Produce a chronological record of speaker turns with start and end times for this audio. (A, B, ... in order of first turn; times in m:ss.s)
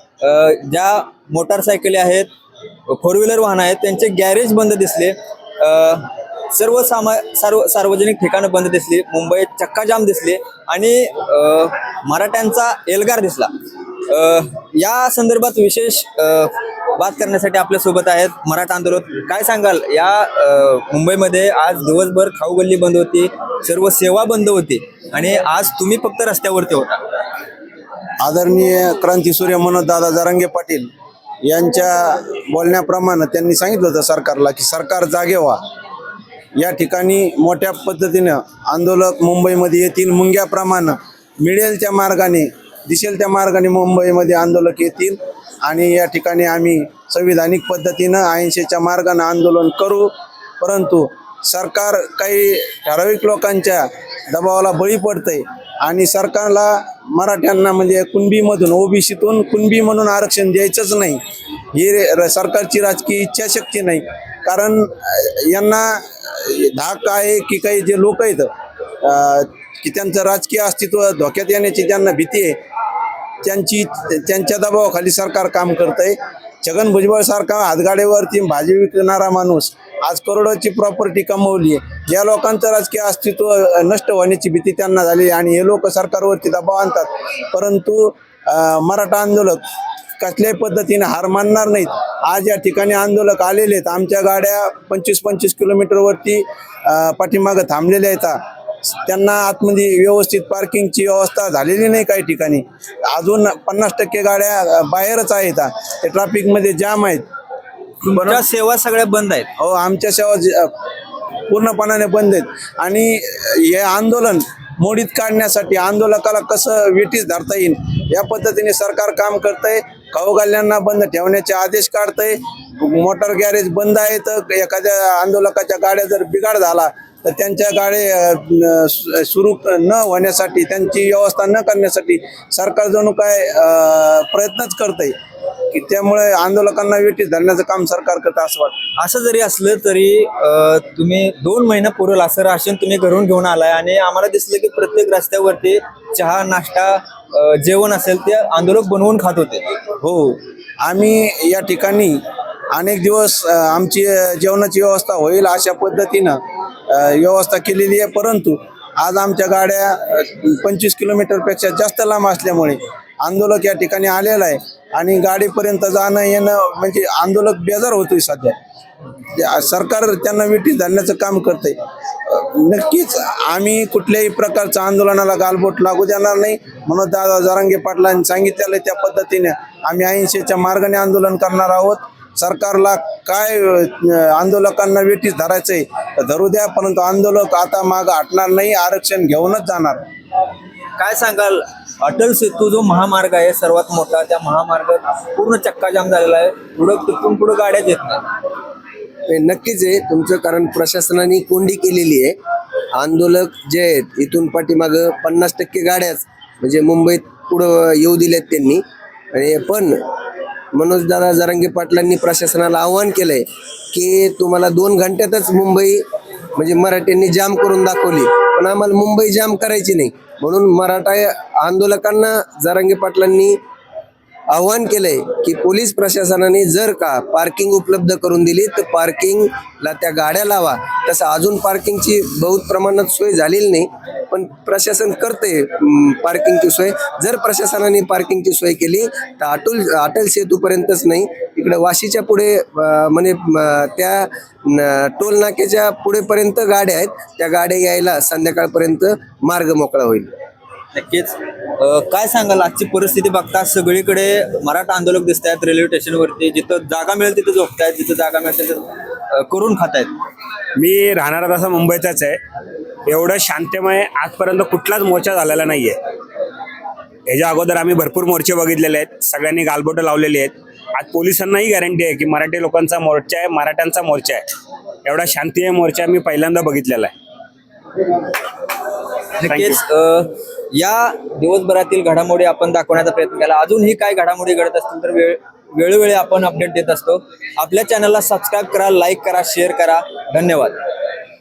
0:00.2-0:02.3 A
0:02.9-0:13.5 A
0:14.1-0:27.0 A
0:28.2-0:30.9 B
0:31.4-0:35.6 B
0:36.6-1:01.2 B
1:01.7-1:08.5 B
1:09.0-1:12.6 B
1:13.4-1:29.6 B
1:30.2-1:38.4 B
1:39.0-1:47.2 B
1:48.0-1:48.4 B
1:48.2-1:49.5 A
1:49.6-1:50.7 B
1:51.5-2:15.2 B
2:15.7-2:18.7 B
2:19.0-2:29.7 A
2:30.0-2:32.2 B
2:32.7-2:36.4 B
2:36.9-2:48.6 B
2:49.4-2:51.8 B
2:52.3-3:10.0 B
3:11.0-3:18.2 A
3:19.3-3:22.4 C
3:23.0-3:30.0 C
3:30.8-3:36.0 C
3:36.6-3:43.6 C
3:44.5-4:10.3 C
4:10.9-4:20.1 A
4:20.8-4:22.4 D
4:23.1-4:26.0 D
4:27.3-4:34.4 D
4:35.0-4:37.1 D
4:39.4-4:50.8 A
4:39.5-4:39.8 D